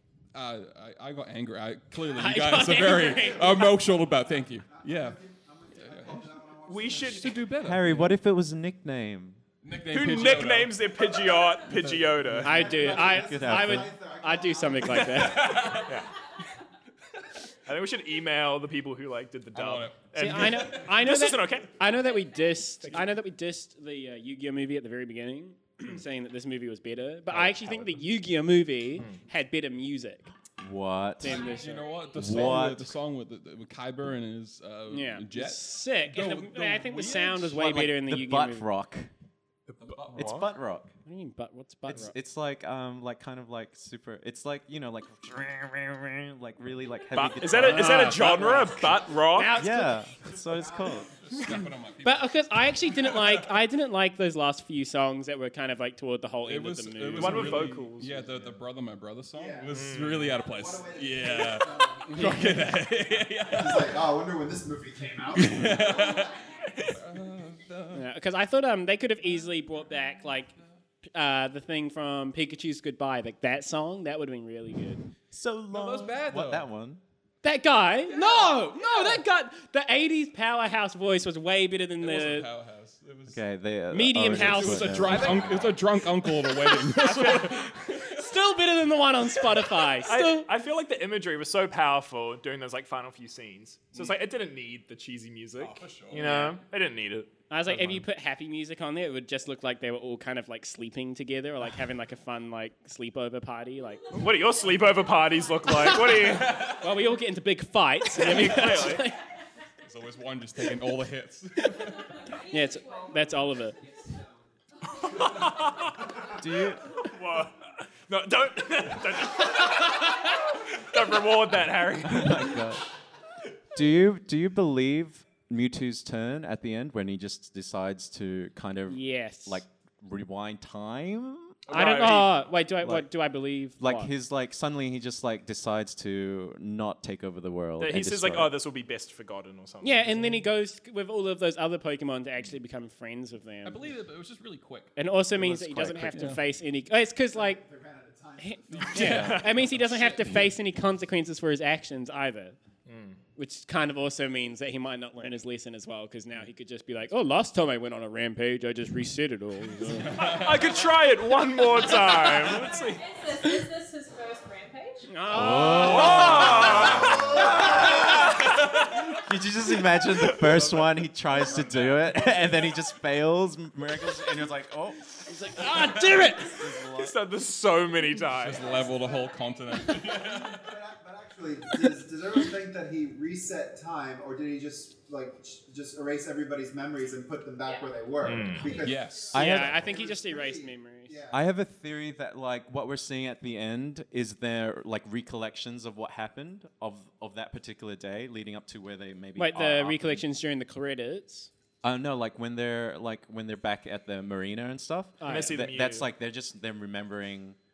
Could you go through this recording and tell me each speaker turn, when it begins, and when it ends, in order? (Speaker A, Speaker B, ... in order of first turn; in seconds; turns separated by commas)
Speaker A: 0.3-5.2, Speaker B: 2.1-3.7, Speaker C: 3.1-3.6, Speaker C: 4.6-7.3, Speaker A: 5.8-6.3, Speaker D: 6.7-7.5, Speaker A: 6.9-8.2, Speaker E: 7.6-9.4, Speaker A: 9.6-10.9, Speaker D: 9.9-13.0, Speaker A: 11.6-12.5, Speaker C: 12.4-15.8, Speaker B: 12.4-15.7, Speaker E: 13.0-13.9, Speaker D: 14.9-16.1, Speaker A: 15.1-16.0, Speaker D: 17.7-21.8, Speaker A: 19.5-20.9, Speaker B: 20.2-30.3, Speaker D: 22.8-23.1, Speaker D: 27.3-28.0, Speaker E: 30.6-31.5, Speaker B: 31.2-31.8, Speaker F: 31.2-32.5, Speaker A: 31.4-37.8, Speaker E: 32.1-32.9, Speaker B: 34.9-38.7, Speaker E: 37.5-39.1, Speaker D: 39.7-40.5, Speaker A: 39.8-40.4, Speaker E: 40.1-40.9, Speaker B: 41.0-42.1, Speaker E: 41.9-48.8, Speaker D: 47.1-49.6, Speaker B: 47.7-48.7, Speaker B: 49.3-50.0, Speaker E: 49.5-51.1, Speaker C: 50.3-51.4, Speaker A: 51.2-53.5, Speaker B: 52.0-57.7, Speaker A: 56.4-64.0, Speaker D: 57.1-58.4, Speaker C: 59.3-62.9, Speaker D: 59.7-60.4, Speaker B: 62.1-62.7, Speaker C: 63.4-66.1, Speaker A: 65.3-68.1, Speaker F: 65.7-66.7, Speaker B: 67.9-70.5, Speaker B: 71.1-75.0, Speaker E: 75.3-77.0, Speaker A: 75.7-76.7, Speaker B: 77.4-82.5, Speaker A: 82.0-83.4, Speaker E: 83.3-85.8, Speaker B: 83.9-85.5, Speaker A: 84.2-88.3, Speaker B: 86.5-90.5, Speaker D: 87.0-87.7, Speaker D: 90.0-98.0, Speaker A: 95.6-96.6, Speaker B: 96.1-96.6, Speaker B: 97.5-104.2, Speaker F: 104.0-106.0, Speaker D: 104.1-106.7, Speaker B: 105.6-109.2, Speaker A: 106.2-106.9, Speaker D: 108.1-109.1, Speaker A: 109.8-112.2, Speaker F: 111.8-114.2, Speaker B: 112.5-113.8, Speaker D: 115.0-116.1, Speaker E: 116.3-116.9, Speaker D: 117.0-122.6, Speaker E: 122.0-122.8, Speaker E: 123.7-131.8, Speaker B: 128.9-129.6, Speaker D: 131.7-132.5, Speaker B: 131.7-134.1, Speaker E: 132.8-133.1, Speaker E: 133.8-138.5, Speaker D: 137.8-140.4, Speaker B: 139.8-143.9, Speaker A: 143.6-146.4, Speaker B: 144.9-147.6, Speaker C: 147.3-149.3, Speaker B: 148.4-152.6, Speaker A: 148.7-150.4, Speaker E: 149.0-149.4, Speaker D: 149.1-149.5, Speaker D: 152.9-153.2, Speaker B: 153.4-160.2, Speaker A: 159.9-160.8, Speaker D: 160.2-163.1, Speaker F: 162.1-165.1, Speaker B: 165.1-167.0, Speaker E: 165.3-168.3, Speaker D: 165.8-167.7, Speaker C: 166.9-167.8, Speaker E: 168.8-177.2, Speaker A: 171.3-172.4, Speaker B: 175.3-176.6, Speaker D: 176.9-178.8, Speaker A: 178.2-180.8, Speaker F: 178.6-179.9, Speaker C: 178.8-179.3, Speaker C: 179.8-191.4, Speaker F: 187.6-187.9, Speaker D: 188.2-188.8, Speaker F: 188.5-189.8, Speaker A: 188.7-189.3, Speaker E: 189.3-189.9, Speaker B: 189.3-191.1, Speaker E: 191.3-200.2, Speaker B: 199.4-201.5, Speaker E: 201.8-207.6, Speaker B: 205.2-205.5, Speaker D: 205.2-206.1